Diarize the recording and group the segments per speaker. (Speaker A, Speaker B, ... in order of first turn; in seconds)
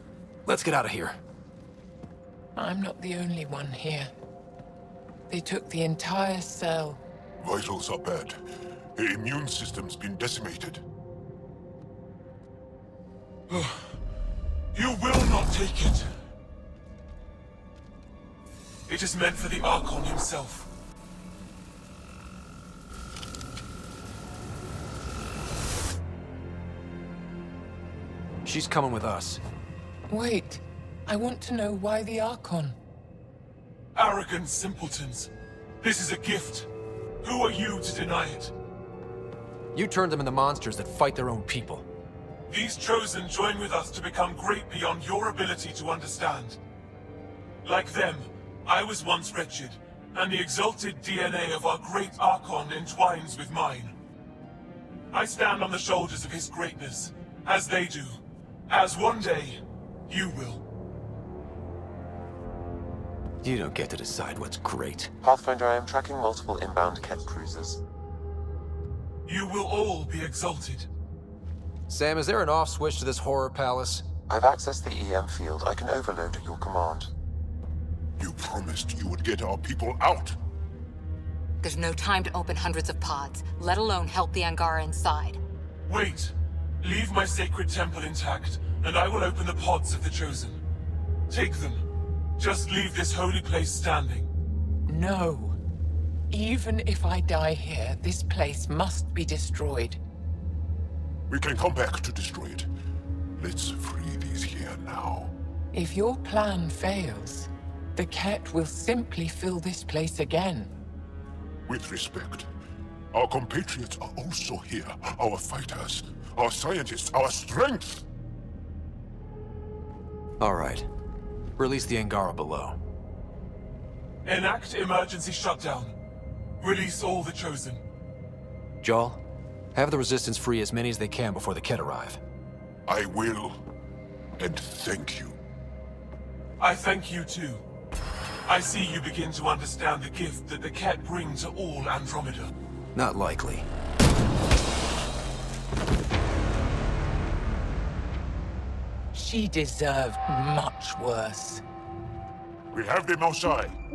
Speaker A: 0.5-1.2, 28.4-29.4, 39.7-41.9, 63.4-65.1, 71.9-74.0, 120.4-120.9, 121.6-122.8, 128.8-129.2, 129.7-132.2, 142.9-143.7
Speaker B: 2.6-4.1, 5.3-7.0, 30.1-32.8, 94.9-95.6, 96.3-100.0, 105.7-110.7, 149.1-151.6
Speaker C: 7.4-8.4, 9.0-10.8, 78.2-80.4, 101.3-102.7, 103.4-105.3, 111.7-112.5, 113.1-118.0, 132.9-133.6, 134.4-135.4, 152.7-153.8
Speaker D: 13.5-13.8, 14.7-16.1, 18.9-20.7, 34.0-35.3, 35.8-36.7, 37.2-38.5, 42.5-46.6, 47.6-53.9, 55.1-60.6, 69.3-70.9, 85.9-90.6, 91.3-91.8, 92.4-94.3, 124.2-125.9, 126.6-127.8, 136.6-137.6, 138.5-142.5
Speaker E: 65.2-67.8, 74.3-77.1
Speaker F: 81.6-85.4